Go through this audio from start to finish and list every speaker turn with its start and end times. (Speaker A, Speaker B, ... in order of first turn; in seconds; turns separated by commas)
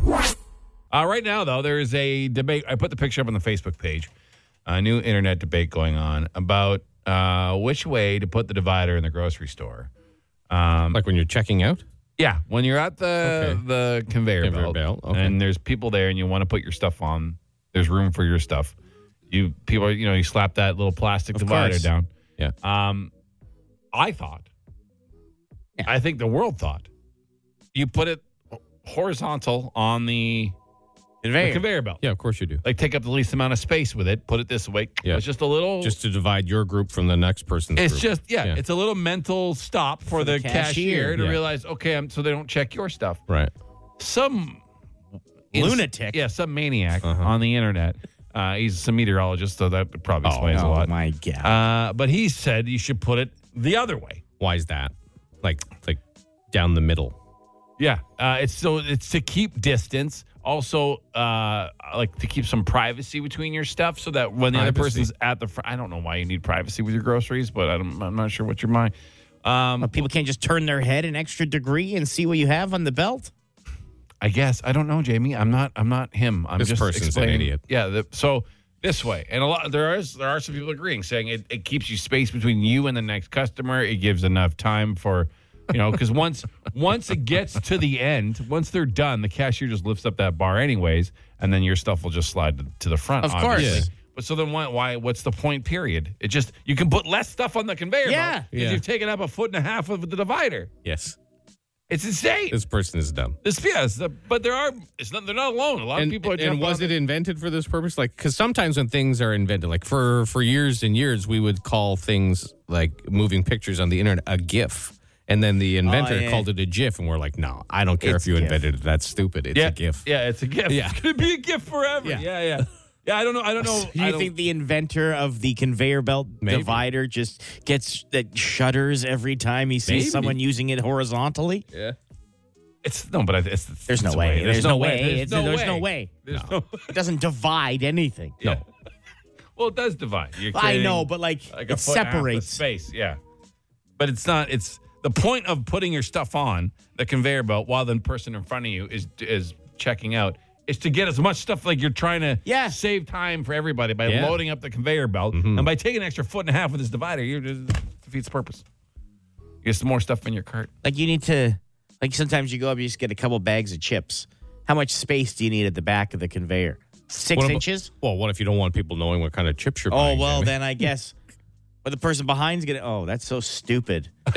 Speaker A: 0.9-4.1, Speaker A: 4.7-9.9, Speaker A: 10.5-11.0, Speaker B: 10.9-11.8, Speaker A: 12.2-18.7, Speaker B: 13.2-13.6, Speaker B: 14.4-15.4, Speaker A: 19.3-22.1, Speaker C: 21.3-21.9, Speaker A: 22.6-23.1, Speaker A: 23.9-24.5, Speaker A: 25.9-26.9, Speaker A: 27.8-30.5, Speaker C: 31.2-31.6, Speaker A: 31.4-32.0, Speaker B: 32.0-32.6, Speaker A: 32.6-36.0, Speaker B: 35.8-38.6, Speaker A: 37.8-43.2, Speaker C: 40.1-41.2, Speaker A: 44.0-44.6, Speaker A: 45.5-50.9, Speaker C: 45.5-46.2, Speaker B: 47.0-47.3, Speaker B: 50.2-50.6, Speaker C: 50.5-51.6, Speaker A: 51.4-54.2, Speaker B: 54.4-56.0, Speaker B: 56.5-57.2, Speaker A: 57.8-68.9, Speaker B: 64.5-65.1, Speaker A: 69.4-70.1, Speaker C: 69.8-73.3, Speaker A: 74.2-100.7, Speaker B: 76.6-77.6, Speaker C: 93.2-93.9, Speaker B: 93.5-93.9, Speaker C: 98.0-98.5, Speaker B: 98.5-98.8, Speaker B: 100.8-101.2, Speaker A: 101.9-102.6, Speaker B: 102.5-103.4, Speaker A: 103.4-107.0, Speaker B: 106.0-120.1, Speaker C: 115.8-116.5, Speaker C: 118.0-118.7, Speaker A: 119.5-124.3, Speaker B: 120.7-121.0, Speaker C: 123.6-131.7, Speaker B: 126.4-126.8, Speaker B: 129.9-130.4, Speaker A: 132.8-136.9, Speaker C: 133.9-136.1, Speaker C: 136.9-138.4, Speaker A: 139.6-143.2, Speaker C: 140.5-142.6, Speaker A: 144.0-158.6, Speaker C: 152.4-152.8, Speaker B: 154.1-154.4, Speaker B: 155.3-155.7, Speaker A: 159.6-160.7, Speaker C: 160.8-167.9, Speaker B: 167.3-170.6, Speaker C: 169.9-171.2, Speaker C: 171.8-174.1